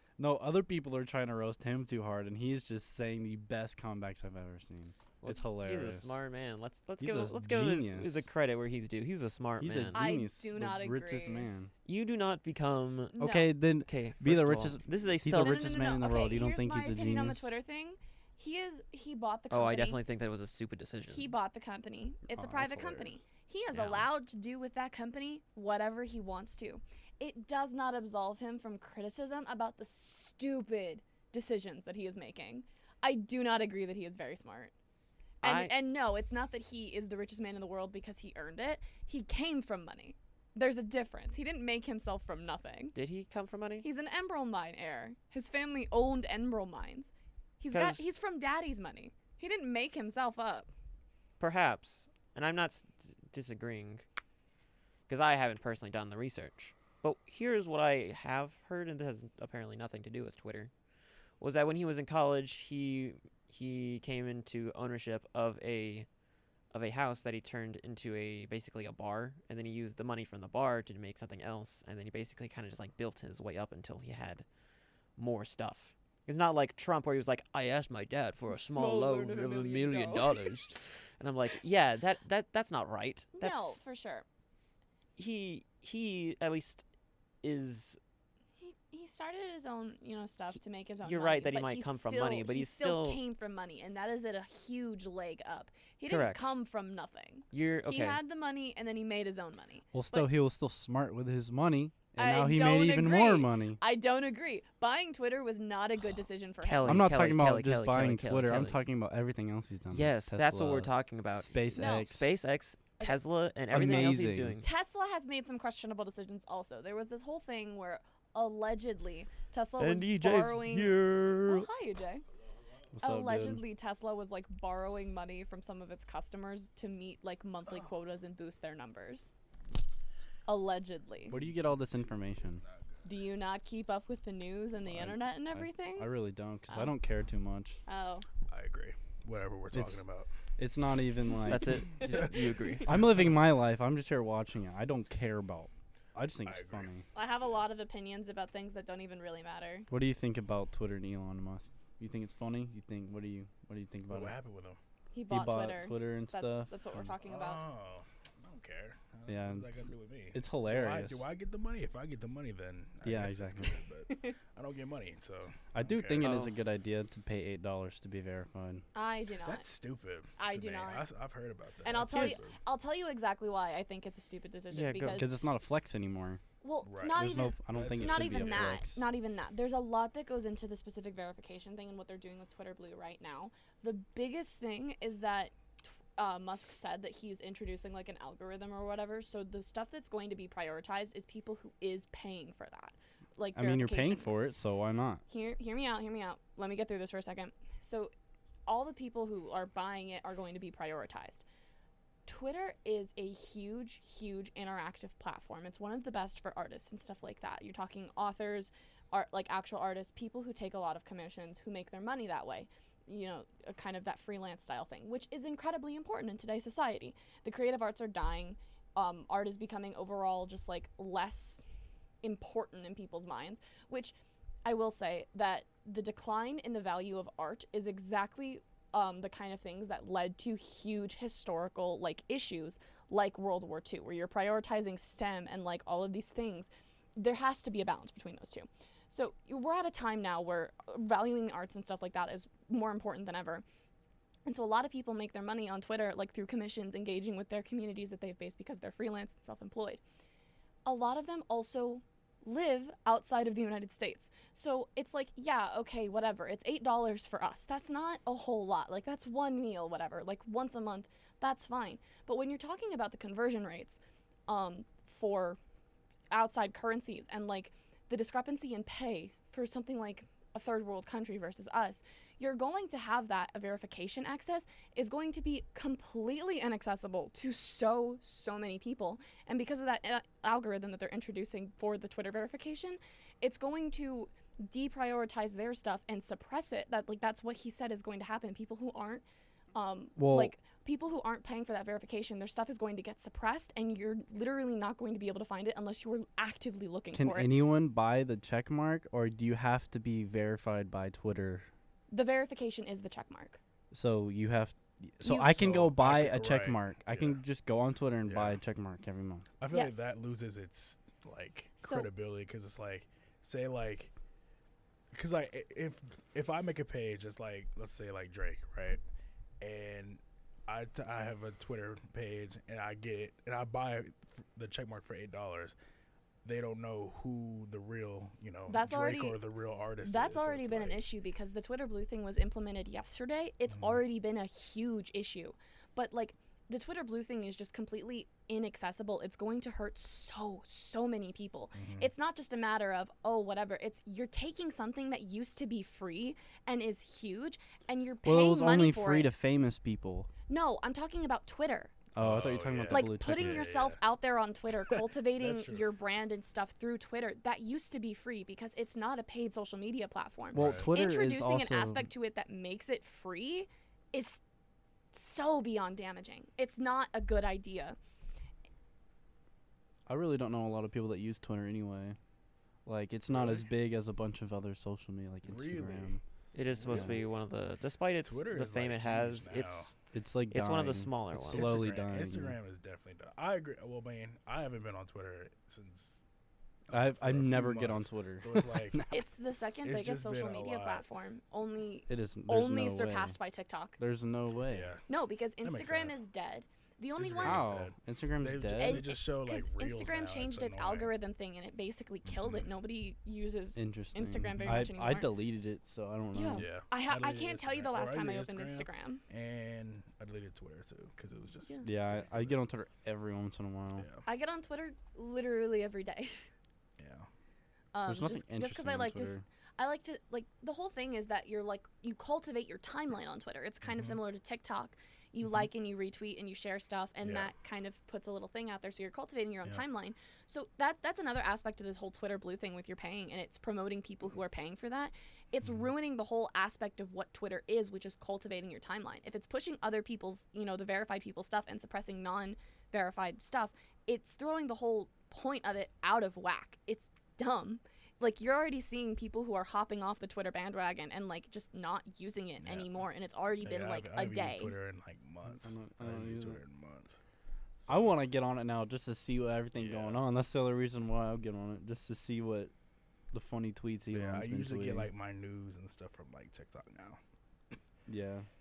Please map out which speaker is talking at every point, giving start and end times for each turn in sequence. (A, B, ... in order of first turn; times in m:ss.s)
0:00.2-0:06.1 A
0:05.2-0:10.0 B
0:07.0-0:08.3 A
0:09.6-0:11.7 A
0:09.9-0:11.5 C
0:11.8-0:13.2 B
0:13.2-0:13.5 C
0:13.2-0:17.5 A
0:13.8-0:15.7 B
0:15.2-0:20.0 C
0:19.5-0:21.3 B
0:21.1-0:34.7 C
0:22.4-0:23.1 A
0:23.7-0:24.1 B
0:35.4-0:35.7 B
0:35.4-0:43.0 C
0:43.0-0:43.8 B
0:43.8-0:50.7 C
0:47.7-0:48.0 B
0:51.4-0:54.0 B
0:55.1-1:00.7 B
1:01.4-1:06.1 B
1:06.7-1:14.4 B
1:15.2-1:23.8 B
1:19.0-1:20.0 D
1:23.4-1:24.2 C
1:25.2-1:26.8 B
1:27.4-1:28.0 B
1:28.6-1:40.3 C
1:31.0-1:33.2 B
1:36.1-1:36.5 B
1:37.5-1:38.2 B
1:39.9-1:43.8 A
1:42.2-1:47.1 C
1:46.6-1:48.8 B
1:46.8-1:52.3 A
1:49.9-1:54.7 B
1:51.8-1:52.1 C
1:53.7-1:54.6 A
1:53.7-2:02.2 C
1:59.8-2:01.7 B
2:02.9-2:03.6 A
2:03.0-2:09.3 C
2:10.5-2:11.4 C
2:11.3-2:12.6 A
2:11.3-2:13.0 D
2:13.0-2:16.1 C
2:14.9-2:17.8 A
2:17.9-2:18.2 C
2:18.5-2:20.3 D
2:19.7-2:20.0 A
2:20.6-2:22.2 A
2:21.4-2:23.0 B
2:22.8-2:27.0 A
2:26.4-2:26.9 D
2:27.1-2:29.9 C
2:29.9-2:34.3 A
2:34.1-2:34.8 D
2:35.1-2:37.6 C
2:35.3-2:37.1 A
2:37.2-2:46.4 D
2:39.3-2:41.2 A
2:43.0-2:43.8 A
2:45.7-2:48.8 A
2:46.2-2:46.5 B
2:48.9-2:49.7 C
2:49.4-2:52.6 D
2:50.4-2:51.1 C
2:51.8-2:55.3 C
2:52.1-2:52.4 B
2:54.7-2:55.2 B
2:55.1-2:56.4 A
2:56.6-3:14.3 C
2:56.8-2:58.8 D
2:57.1-2:59.0 A
3:13.5-3:15.2 A
3:15.3-3:18.1 C
3:18.6-3:21.4 C
3:22.2-3:41.6 C
3:42.2-4:03.6 C
4:04.4-4:10.0 C
4:10.8-4:25.6 C
4:26.3-4:49.2 C
4:49.7-4:57.5 C
4:50.2-4:50.5 A
4:57.1-5:01.7 A
5:02.1-5:03.6 C
5:03.9-5:09.5 A
5:05.2-5:07.4 D
5:08.2-5:08.6 D
5:09.6-5:14.1 D
5:09.7-5:10.0 C
5:11.8-5:12.1 C
5:15.1-5:19.0 D
5:19.6-5:25.8 D
5:26.4-5:31.0 D
5:28.7-5:29.4 C
5:30.0-5:49.3 C
5:33.7-5:34.0 D
5:41.7-5:42.1 D
5:48.2-5:50.3 A
5:50.5-5:51.9 C
5:52.1-5:53.7 A
5:52.2-5:54.0 D
5:52.9-6:04.4 C
5:55.3-5:55.8 D
6:00.5-6:00.9 D
6:00.5-6:02.1 A
6:05.1-6:08.0 C
6:10.1-6:12.2 A
6:12.9-6:16.2 A
6:13.3-6:13.7 D
6:15.4-6:16.2 D
6:16.5-6:19.9 B
6:16.7-6:17.3 D
6:16.9-6:17.2 A
6:18.2-6:19.9 D
6:20.1-6:22.6 A
6:20.5-6:21.9 B
6:21.4-6:26.2 D
6:26.9-6:29.0 D
6:26.9-6:29.2 A
6:29.1-6:34.0 C
6:29.8-6:31.0 D
6:32.1-6:33.4 A
6:34.0-6:34.9 A
6:34.7-6:35.0 D
6:35.1-6:37.7 C
6:35.6-6:36.2 D
6:37.2-6:41.1 D
6:37.4-6:39.0 A
6:38.7-6:45.4 C
6:42.2-6:42.7 D
6:43.8-6:46.7 A
6:44.6-6:44.9 D
6:46.3-6:49.2 C
6:46.5-6:52.6 D
6:51.8-6:54.1 A
6:54.0-6:54.2 D
6:54.2-6:56.5 C
6:57.0-6:57.3 D
6:57.9-7:34.7 C
6:58.0-6:59.4 A
7:03.9-7:04.2 D
7:07.2-7:07.5 D
7:32.6-7:33.0 D
7:33.6-7:37.2 D
7:35.5-7:36.6 A
7:37.8-7:38.2 D
7:37.9-7:42.7 A
7:39.8-7:40.1 D
7:43.3-7:45.1 A
7:44.1-7:47.2 D
7:48.1-7:48.5 A